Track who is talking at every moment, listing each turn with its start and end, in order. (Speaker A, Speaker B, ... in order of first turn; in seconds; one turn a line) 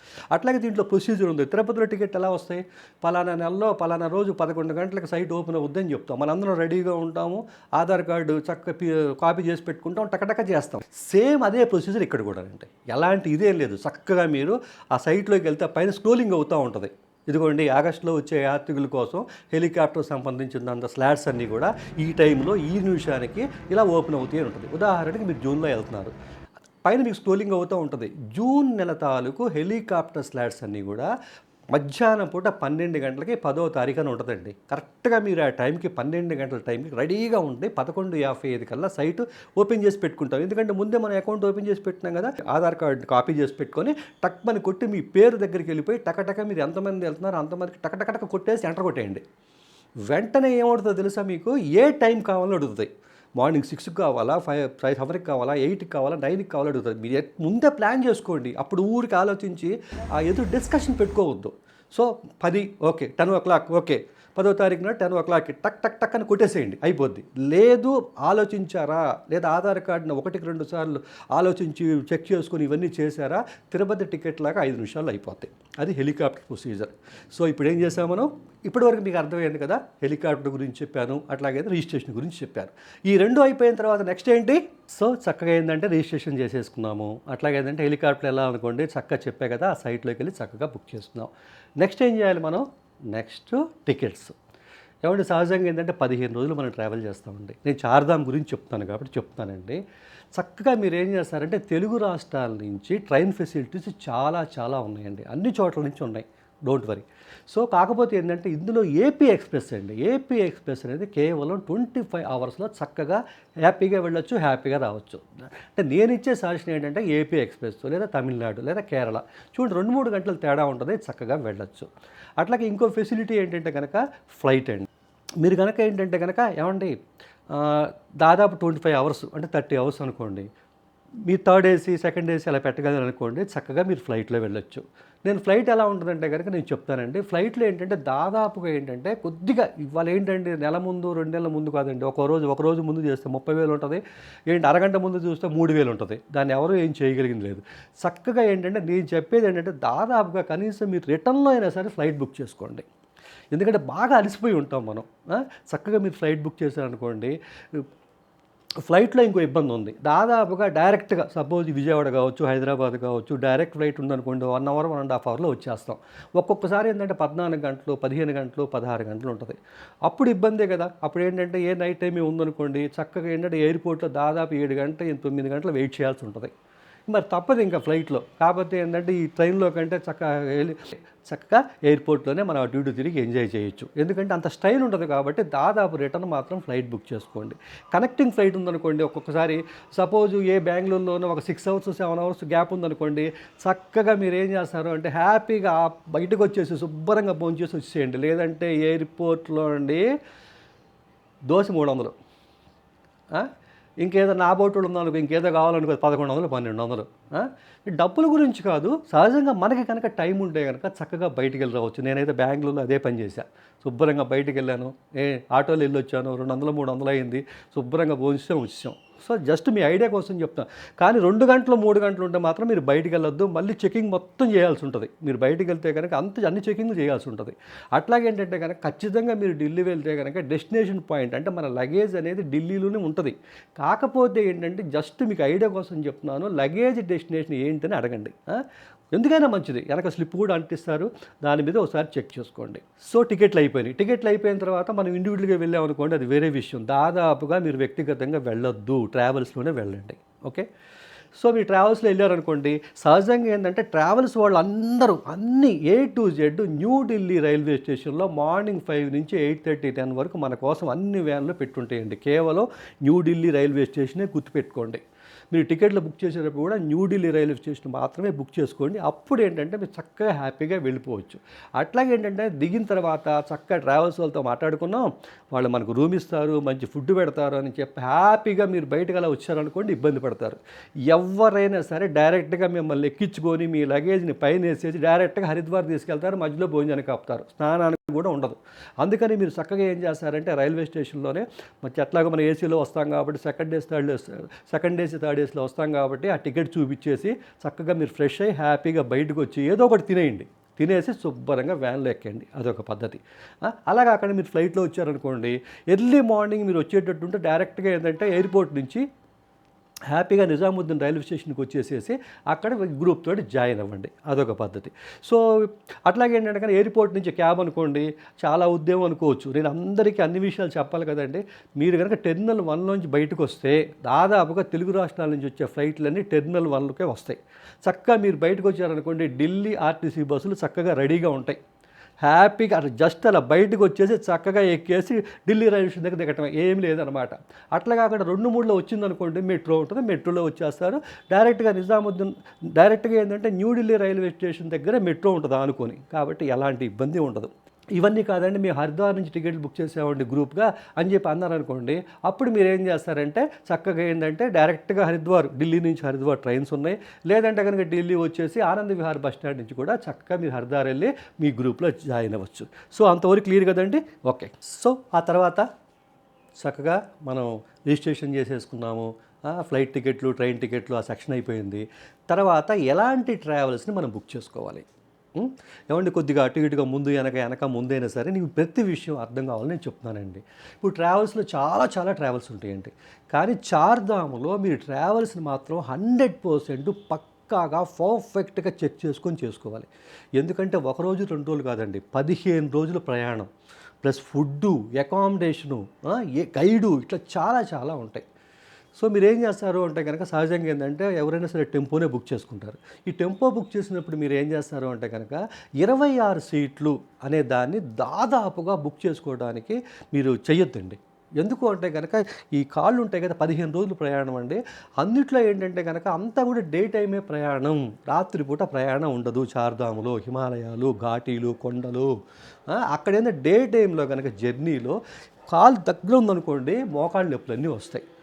Speaker A: 0.3-26.1
Speaker A: 26.8-31.1
Speaker A: 31.7-49.2
Speaker A: 50.1-91.3
Speaker A: 91.8-94.3
Speaker A: 95.0-99.8
Speaker A: 100.3-121.9
Speaker A: 122.4-124.9
Speaker A: 125.4-127.0
Speaker A: 127.5-130.5
Speaker A: 131.3-152.8
Speaker A: 153.5-157.8
Speaker A: 158.8-176.5
Speaker A: 177.1-200.0
Speaker A: 201.5-202.1
Speaker A: 204.0-250.7
Speaker A: 251.3-309.0
Speaker A: 310.1-331.6
Speaker A: 332.2-365.7
Speaker A: 366.6-389.9
Speaker A: 390.4-393.5
Speaker A: 394.0-398.2
Speaker A: 399.0-422.1
Speaker A: 422.7-425.0
Speaker A: 425.5-428.0